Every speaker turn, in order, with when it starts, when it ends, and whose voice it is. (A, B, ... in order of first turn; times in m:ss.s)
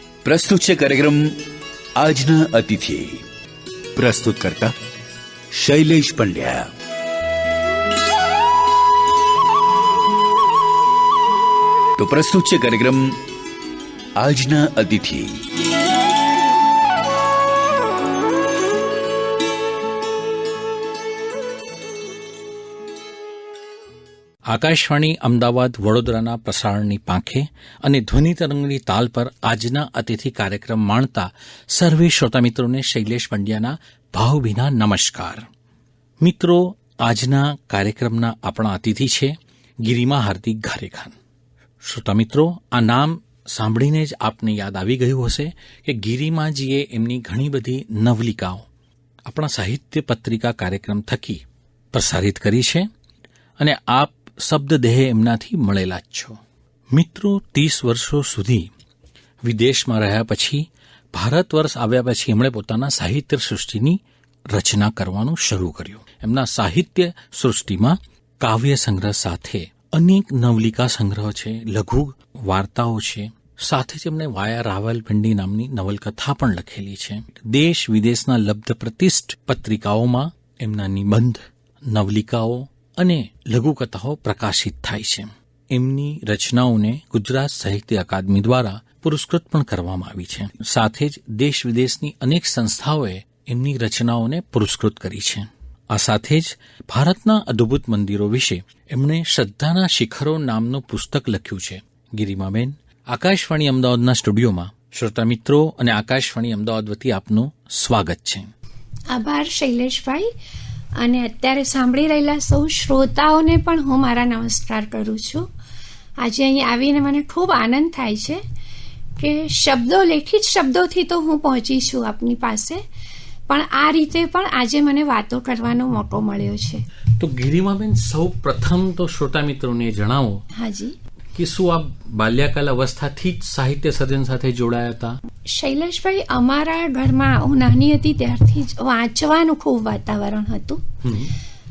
0:00.2-0:01.3 A
0:02.0-0:03.2 A
0:04.0-0:04.7 A
0:05.5-0:06.7 A
0:12.0-0:13.2 A
0:14.2-0:15.4 A
0:24.5-0:35.5 B
0:36.2-0:41.2 B
0:41.8-0:48.7 B
0:49.2-0:52.9 B
0:53.6-0:56.4 B
0:56.9-0:58.7 B
0:59.4-1:48.5 B
1:49.1-1:50.3 C
1:51.0-1:55.5 C
1:56.2-1:58.4 C
1:59.2-2:02.8 C
2:03.5-2:06.8 C
2:07.2-2:10.4 B
2:10.5-2:11.0 C
2:11.3-2:15.2 B
2:15.4-2:20.9 C
2:21.0-2:21.3 B